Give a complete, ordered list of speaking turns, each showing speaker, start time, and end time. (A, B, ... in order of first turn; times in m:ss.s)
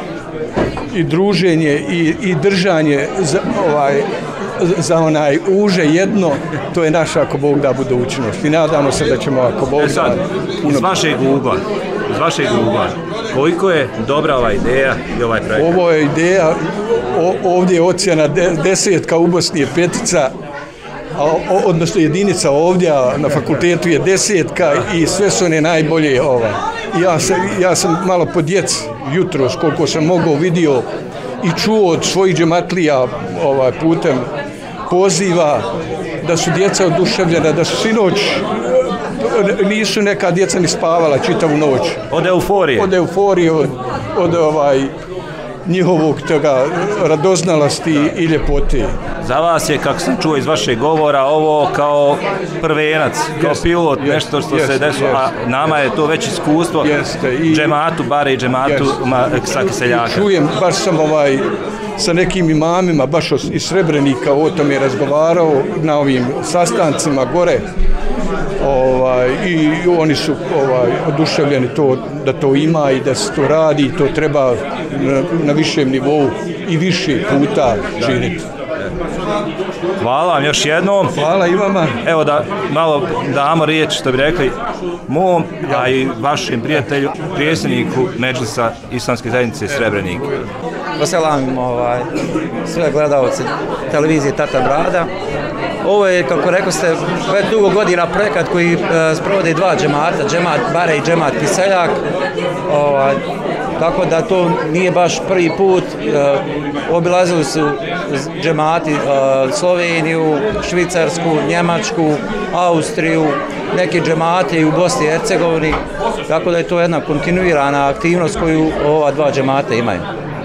0:00.9-0:10.9 A
0:09.8-0:15.8 B
0:15.6-0:20.3 A
0:21.1-0:30.8 A
0:31.4-0:34.3 A
0:34.9-0:35.7 A
0:36.2-0:42.0 A
0:42.1-0:42.9 B
0:42.8-0:44.9 A
0:45.6-0:49.0 A
0:49.2-0:57.0 B
0:53.4-0:55.3 A
0:56.8-0:57.8 A
0:57.5-1:00.3 B
0:58.6-0:59.0 A
0:59.8-1:01.4 A
1:02.0-1:07.6 A
1:08.6-1:18.5 A
1:20.0-1:21.1 B
1:21.1-1:22.0 A
1:22.0-1:30.4 B
1:25.7-1:26.0 A
1:31.0-1:32.1 C
1:32.6-1:35.1 C
1:35.8-1:42.0 C
1:42.7-1:43.2 C
1:43.8-2:00.1 C